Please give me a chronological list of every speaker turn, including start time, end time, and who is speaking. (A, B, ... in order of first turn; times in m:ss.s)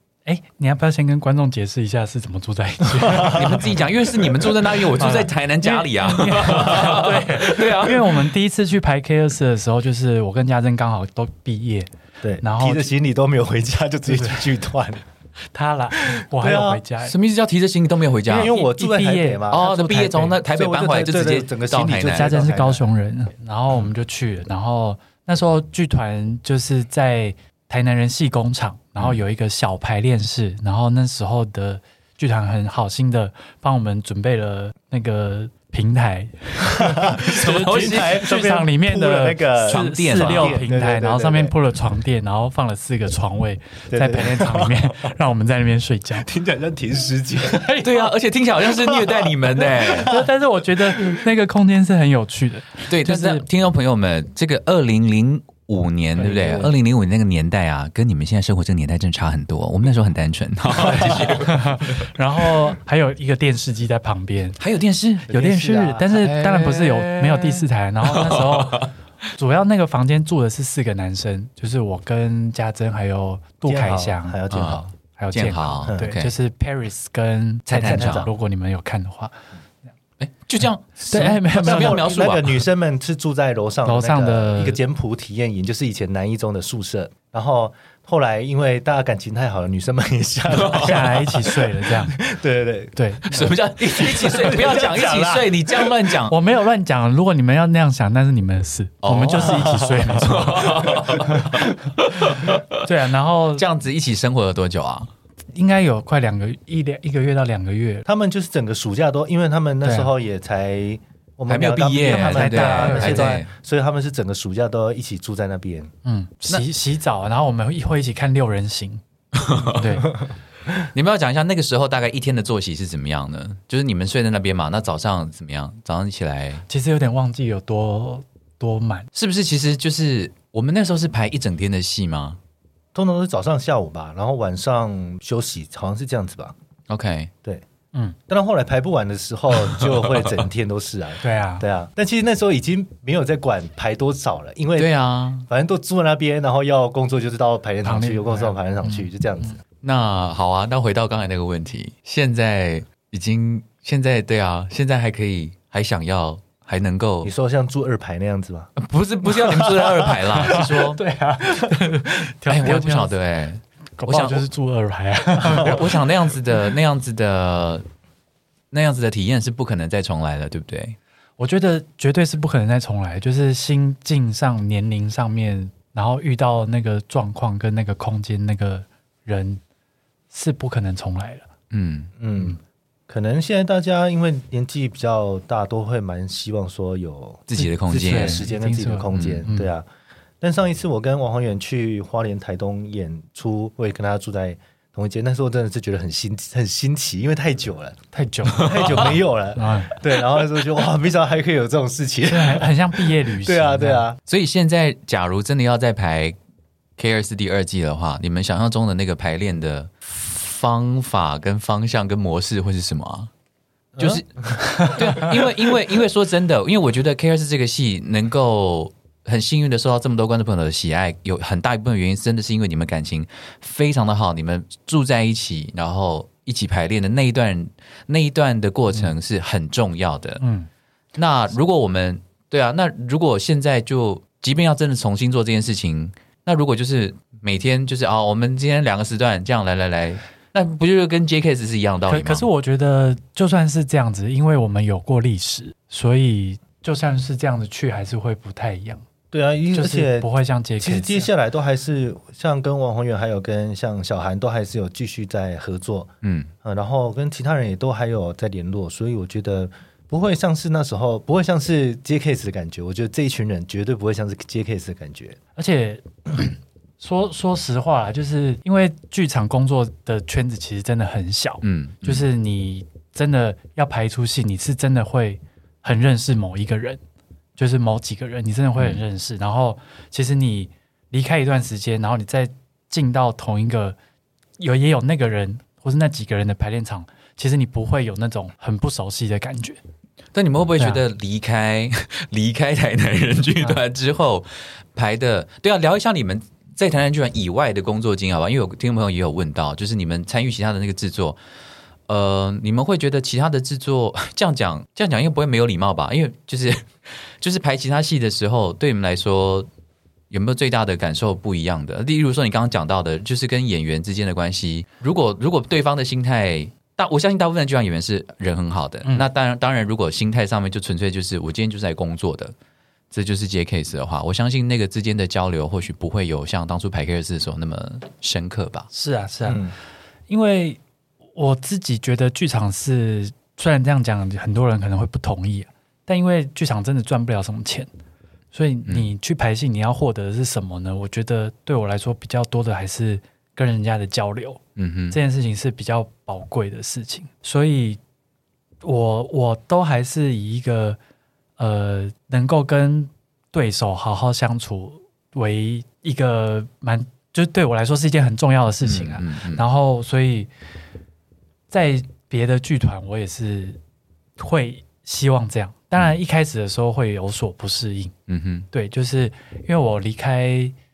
0:00.2-0:03.7 A
0:03.2-0:08.2 B
0:04.8-0:11.9 A
0:12.2-0:15.0 C
0:12.4-0:12.9 A
0:14.1-0:14.5 A
0:15.5-0:17.1 A
0:16.0-0:16.8 C
0:17.0-0:18.5 B
0:18.2-0:19.7 C
0:18.4-0:20.4 A
0:19.5-0:22.3 B
0:20.4-0:22.8 C
0:22.0-0:46.3 A
0:36.7-0:41.5 C
0:37.2-0:38.3 B
0:39.7-0:40.6 B
0:43.9-0:45.1 C
0:46.2-0:47.8 C
0:47.5-0:47.9 A
0:47.8-0:50.1 B
0:48.8-0:50.3 C
0:50.0-0:53.4 A
0:52.9-1:02.1 B
0:56.2-0:56.7 C
1:00.8-1:04.6 A
1:04.6-1:05.3 B
1:05.3-1:06.1 C
1:05.3-1:19.4 A
1:06.1-1:08.9 B
1:13.6-1:14.9 C
1:14.5-1:16.3 B
1:17.6-1:18.3 B
1:17.8-1:18.3 C
1:20.2-1:22.6 B
1:21.1-1:22.0 A
1:21.6-1:35.9 C
1:23.8-1:24.8 A
1:30.5-1:31.0 B
1:30.7-1:32.2 A
1:33.0-1:33.4 A
1:33.3-1:36.3 B
1:36.3-1:41.7 A
1:39.0-1:42.8 B
1:39.4-1:40.0 C
1:42.3-1:43.6 A
1:43.5-1:45.1 B
1:45.5-1:48.0 A
1:48.0-1:55.9 C
1:49.8-1:50.1 A
1:51.5-1:53.5 B
1:52.0-1:53.4 A
1:56.0-1:59.0 A
1:59.3-1:59.9 B
1:59.6-2:00.1 A
2:00.8-2:06.6 B
2:06.7-2:09.1 A
2:09.1-2:12.4 B
2:12.9-2:16.5 C
2:16.9-2:17.3 B
2:18.3-2:24.9 C
2:21.2-2:21.6 A
2:24.8-2:25.5 B
2:25.5-2:29.6 C
2:27.8-2:29.1 A
2:29.8-2:37.3 B
2:37.2-2:38.7 C
2:38.8-2:41.0 B
2:39.7-2:43.1 A
2:42.4-2:44.4 B
2:44.0-2:46.0 A
2:45.5-2:47.8 B
2:48.7-2:51.0 B
2:51.4-2:59.6 A
3:00.3-3:01.5 A
3:01.7-3:02.1 B
3:02.2-3:02.6 C
3:03.1-3:09.9 C
3:07.5-3:08.5 B
3:07.9-3:09.7 A
3:09.1-3:09.4 B
3:10.4-3:18.0 C
3:18.1-3:20.0 A
3:18.5-3:24.2 C
3:18.6-3:18.8 B
3:22.3-3:24.0 A
3:24.2-3:26.4 B
3:27.0-3:33.3 B
3:33.9-3:35.4 C
3:34.0-3:50.4 B
3:50.4-3:50.7 A
3:51.2-4:02.4 B
4:02.1-4:09.0 A
4:09.3-4:10.3 C
4:09.7-4:11.3 A
4:10.8-4:16.1 C
4:16.2-4:16.5 B
4:16.6-4:25.4 C
4:25.6-4:37.0 A
4:31.6-4:32.2 B
4:37.6-4:44.0 A
4:44.6-4:49.8 A
4:50.3-5:01.4 B
4:50.8-4:51.0 A
5:02.1-5:06.9 B
5:07.4-5:09.7 B
5:10.3-5:22.5 B
5:23.1-5:28.9 B
5:28.9-5:29.7 A
5:29.4-5:29.7 C
5:30.3-5:30.8 A
5:31.3-5:37.9 A
5:38.5-5:48.0 A
5:44.8-5:45.2 B
5:48.8-5:51.0 A
5:51.6-6:00.5 A
5:58.8-5:59.6 B
6:01.7-6:03.8 A
6:04.4-6:08.1 A
6:08.3-6:08.7 B
6:08.7-6:10.7 A